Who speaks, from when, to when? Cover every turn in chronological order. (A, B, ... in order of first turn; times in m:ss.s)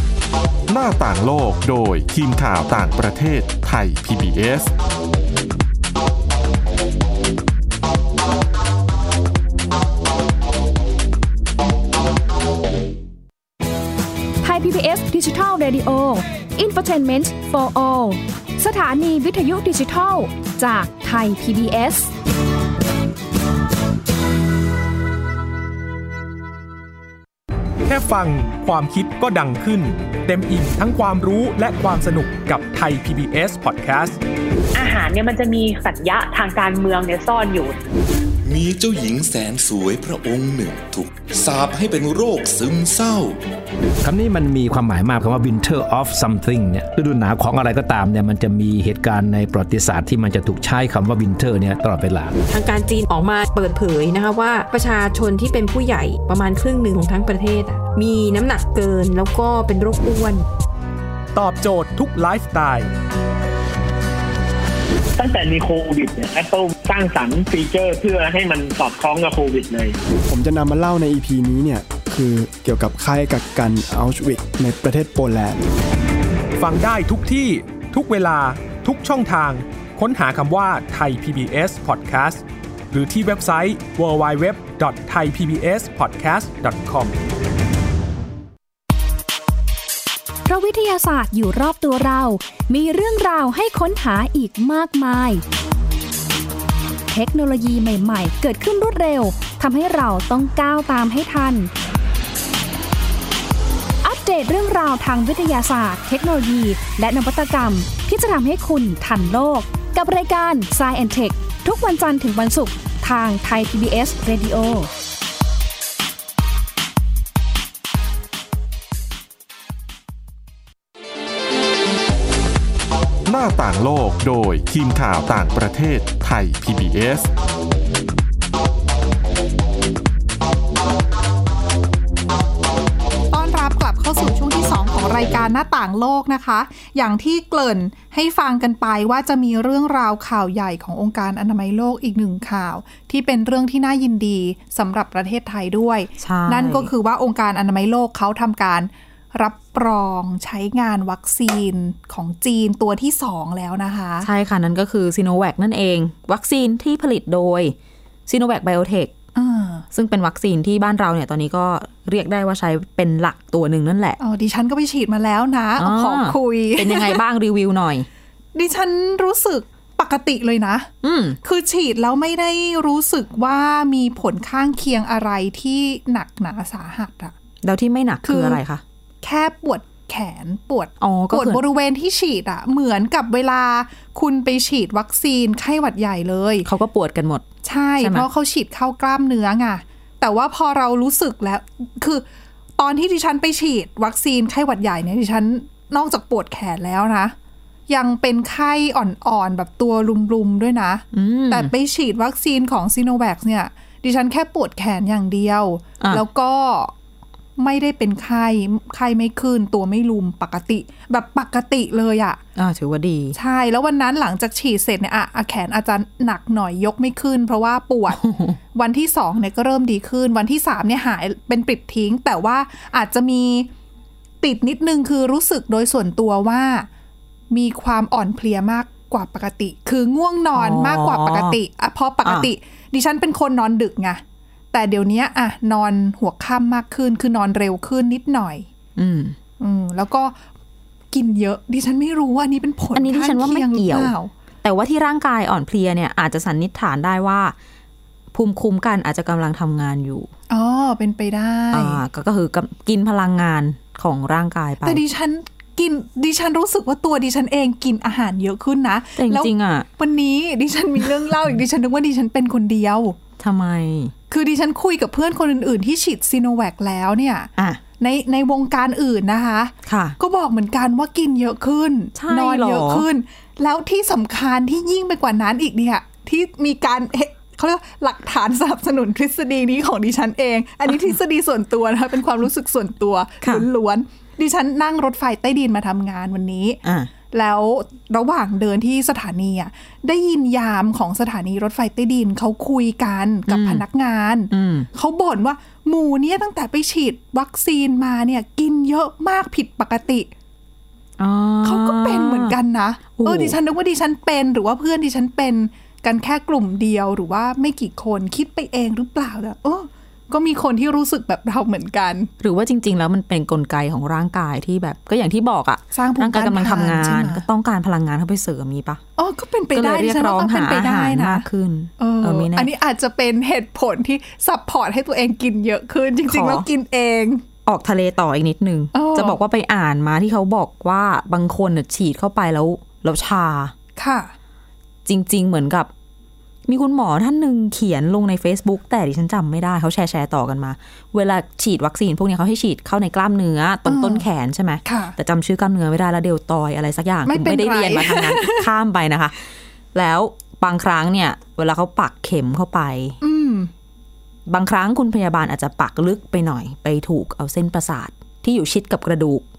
0:00.7-0:04.7 A
0:14.4-0:22.1 B
0:27.9-0:34.2 C
0:34.7-0:37.8 D
0:38.4-0:43.4 E
0:44.0-0:52.4 F
0:52.5-1:00.5 G
1:01.4-1:02.9 C
1:05.2-1:10.0 H
1:10.3-1:15.6 I
1:16.6-1:27.2 C
1:30.5-1:35.4 B
1:37.1-1:41.7 B
1:44.0-1:54.9 B
2:03.3-2:07.3 A
2:13.3-2:34.3 J
2:26.2-2:26.9 K
2:34.2-2:37.8 K
2:38.3-2:39.2 K
2:39.4-2:39.8 J
2:39.9-2:44.2 K
2:44.2-2:47.2 J
2:45.8-2:48.1 K
2:48.6-2:50.9 J
2:51.0-2:51.4 K
2:51.4-2:57.3 J
2:57.6-2:58.8 K
2:58.2-2:58.6 J
2:59.2-3:06.7 J
3:01.0-3:01.6 K
3:06.6-3:07.5 K
3:07.6-3:12.2 J
3:08.0-3:08.3 K
3:12.8-3:17.4 J
3:17.9-3:26.9 J
3:21.1-3:21.7 K
3:27.6-3:32.4 J
3:32.6-3:33.4 K
3:33.4-3:38.2 J
3:38.1-3:38.6 K
3:38.7-3:43.7 J
3:44.4-3:46.9 J
3:47.5-3:54.2 J
3:50.5-3:51.6 K
3:52.2-3:52.5 K
3:54.7-3:58.7 J
3:59.0-3:59.4 K
3:59.6-4:00.4 J
4:01.1-4:04.3 J
4:03.0-4:07.6 K
4:08.3-4:10.3 K
4:10.5-4:12.0 J
4:11.7-4:15.0 K
4:14.8-4:23.2 J
4:19.2-4:19.9 K
4:23.4-4:24.1 K
4:24.3-5:00.3 J
4:29.8-4:30.2 K
4:32.2-4:33.1 K
4:43.4-4:43.7 K
4:46.8-4:47.1 K
4:53.5-4:53.8 K
4:54.5-4:54.9 K
5:01.2-5:02.6 K
5:01.6-5:12.3 J
5:03.2-5:03.6 K
5:12.4-5:19.0 K
5:15.9-5:17.4 J
5:19.2-5:21.4 J
5:19.7-5:22.7 K
5:22.0-5:27.4 J
5:26.3-5:26.7 K
5:27.7-5:33.7 K
5:28.9-5:29.4 J
5:34.0-5:34.3 J
5:35.0-5:35.9 K
5:36.7-5:49.4 K
5:43.9-5:44.2 J
5:44.8-5:45.2 J
5:47.3-5:48.7 J
5:49.9-5:53.2 K
5:53.2-5:53.7 J
5:54.5-5:59.4 K